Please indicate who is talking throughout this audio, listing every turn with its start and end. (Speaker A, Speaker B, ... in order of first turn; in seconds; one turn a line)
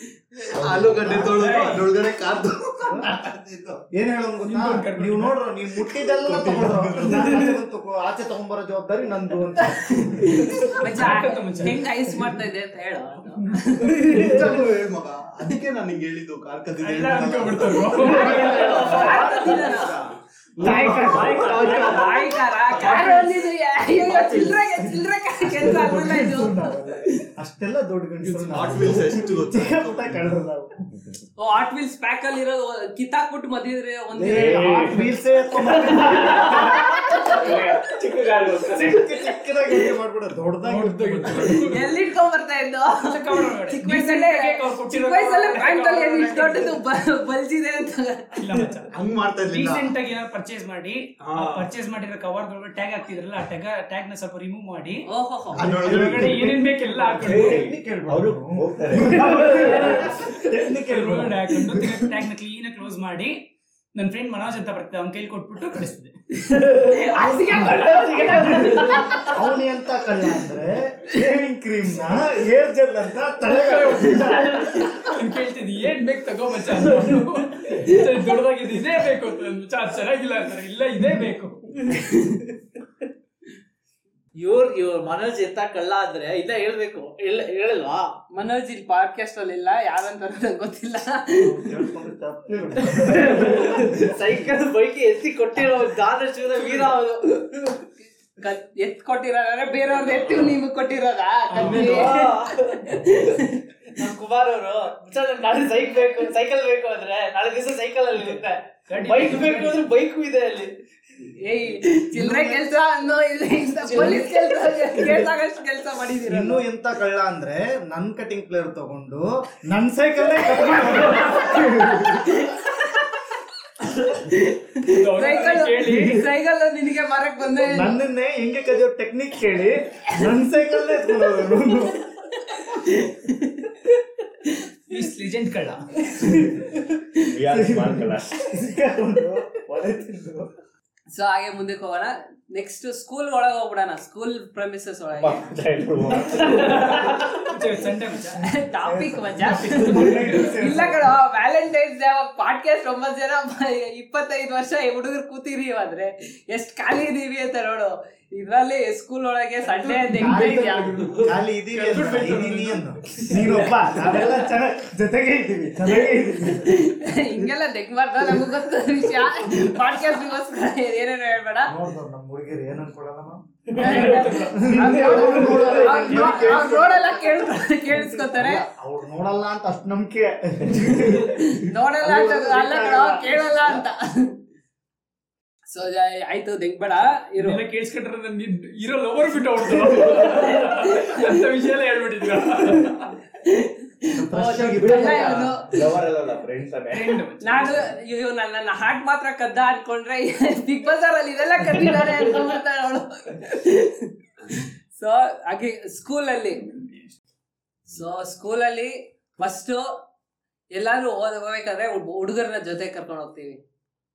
Speaker A: 0.5-3.8
Speaker B: 0.8-1.2
Speaker C: 0.8-1.6
Speaker D: 1.3-1.9
Speaker C: 2.8-3.1
Speaker C: 3.9-10.7
Speaker D: 4.4-5.5
Speaker A: 6.1-7.6
Speaker D: 10.6-11.9
Speaker E: 10.7-14.3
Speaker A: 13.8-18.4
Speaker D: 16.8-19.1
Speaker F: 17.9-19.4
Speaker E: 18.0-19.9
Speaker C: 18.7-21.9
Speaker A: 20.6-21.9
Speaker E: 20.6-26.7
Speaker F: 20.6-23.2
Speaker D: 22.7-23.2
Speaker C: 24.0-30.9
Speaker D: 28.2-28.6
Speaker A: 28.5-30.3
Speaker E: 31.4-34.9
Speaker C: 34.1-37.2
Speaker B: 34.3-35.1
Speaker E: 36.0-37.5
Speaker B: 37.1-39.2
Speaker C: 38.7-41.7
Speaker D: 40.6-42.0
Speaker E: 41.5-48.4
Speaker D: 43.0-46.8
Speaker D: 48.4-55.0
Speaker A: 48.9-49.9
Speaker E: 55.0-55.6
Speaker C: 55.5-62.0
Speaker A: 55.5-56.6
Speaker D: 55.7-57.6
Speaker B: 57.2-59.8
Speaker D: 60.7-63.4
Speaker D: 64.0-66.1
Speaker E: 66.5-69.4
Speaker F: 66.5-67.0
Speaker C: 67.2-74.8
Speaker D: 67.2-68.2
Speaker F: 67.8-69.2
Speaker D: 73.4-81.6
Speaker E: 74.7-75.1
Speaker E: 82.0-82.4
Speaker F: 84.3-88.2
Speaker E: 88.3-91.8
Speaker C: 91.3-94.2
Speaker F: 92.8-97.8
Speaker E: 98.4-103.6
Speaker D: 101.5-102.2
Speaker F: 101.5-103.0
Speaker F: 104.0-110.8
Speaker D: 108.9-109.9
Speaker E: 111.3-116.6
Speaker C: 112.1-112.7
Speaker F: 113.9-114.3
Speaker C: 116.3-122.4
Speaker E: 120.7-122.8
Speaker E: 123.9-128.0
Speaker D: 124.8-126.2
Speaker C: 127.6-132.1
Speaker E: 132.5-133.8
Speaker D: 134.9-135.9
Speaker C: 136.2-136.7
Speaker B: 137.2-138.6
Speaker C: 137.5-140.5
Speaker E: 141.1-145.5
Speaker B: 145.2-147.1
Speaker D: 147.4-148.4
Speaker E: 148.4-161.1
Speaker C: 148.7-151.1
Speaker D: 149.4-150.7
Speaker F: 159.6-160.1
Speaker C: 160.1-166.9
Speaker D: 161.3-163.8
Speaker E: 166.6-171.7
Speaker C: 171.6-183.8
Speaker D: 173.7-175.6
Speaker E: 173.7-178.6
Speaker A: 176.0-176.7
Speaker E: 181.3-184.3
Speaker E: 185.7-187.6
Speaker D: 187.4-193.2
Speaker E: 189.9-191.3
Speaker E: 193.4-195.9
Speaker C: 194.1-195.6
Speaker B: 194.8-197.7
Speaker D: 196.9-197.8
Speaker E: 197.4-206.7
Speaker E: 207.9-210.0
Speaker E: 210.7-213.6